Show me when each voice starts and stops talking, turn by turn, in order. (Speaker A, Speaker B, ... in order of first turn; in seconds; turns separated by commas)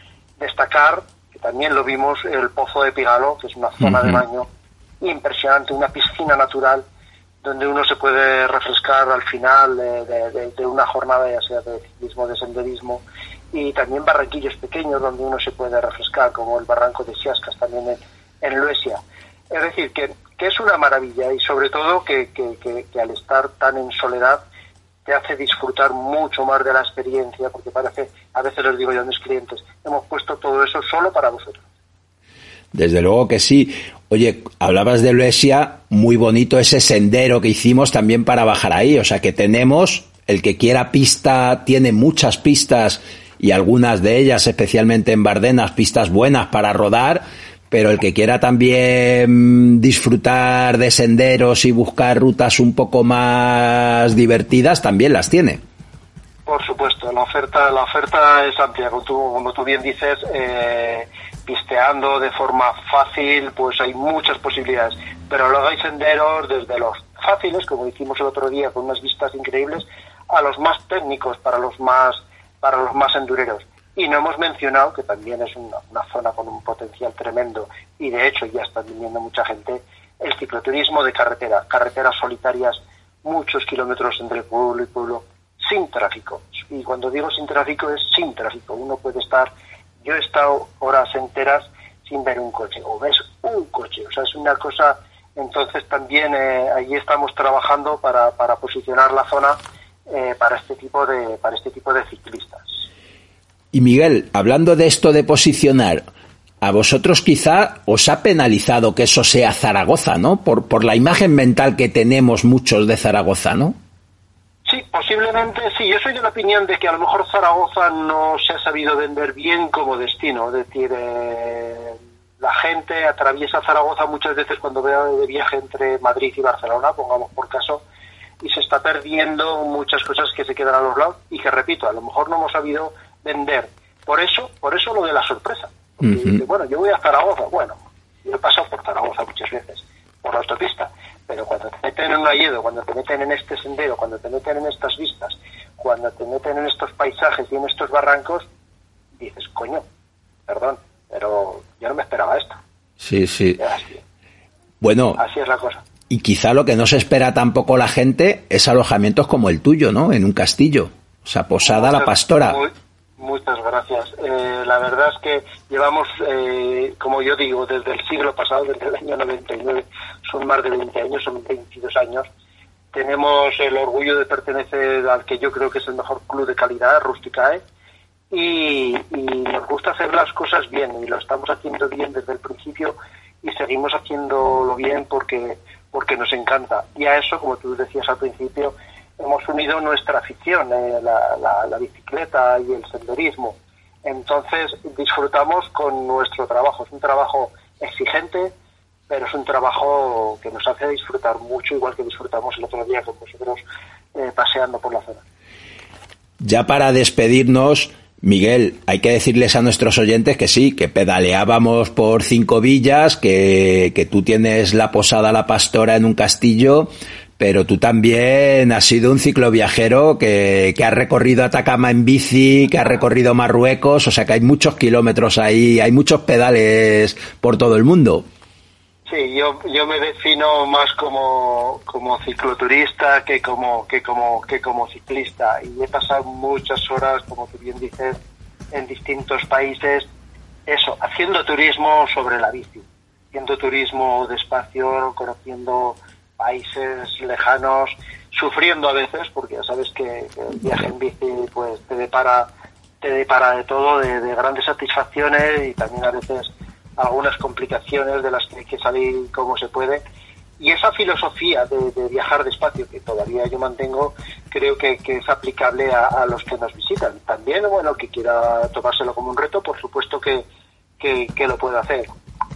Speaker A: 0.4-4.5, Speaker A: 5.0-6.8, Speaker A: 7.4-24.4, Speaker A: 25.1-31.6, Speaker B: 32.7-55.6, Speaker A: 56.5-102.8, Speaker B: 103.7-106.1, Speaker B: 106.6-113.8, Speaker A: 114.6-127.8, Speaker A: 128.4-148.5, Speaker A: 149.2-149.9, Speaker A: 150.5-152.6, Speaker B: 153.0-153.6, Speaker A: 153.6-154.0, Speaker B: 154.8-155.2, Speaker A: 155.2-155.8, Speaker B: 156.1-162.6, Speaker A: 161.6-172.3, Speaker A: 172.9-177.6, Speaker A: 178.3-198.5, Speaker A: 199.1-203.6, Speaker A: 204.1-205.2, Speaker B: 206.4-228.3, Speaker A: 229.1-238.2, Speaker A: 238.7-240.1, Speaker A: 240.7-252.5, Speaker A: 253.0-260.0, Speaker A: 260.6-270.5, Speaker A: 271.0-272.1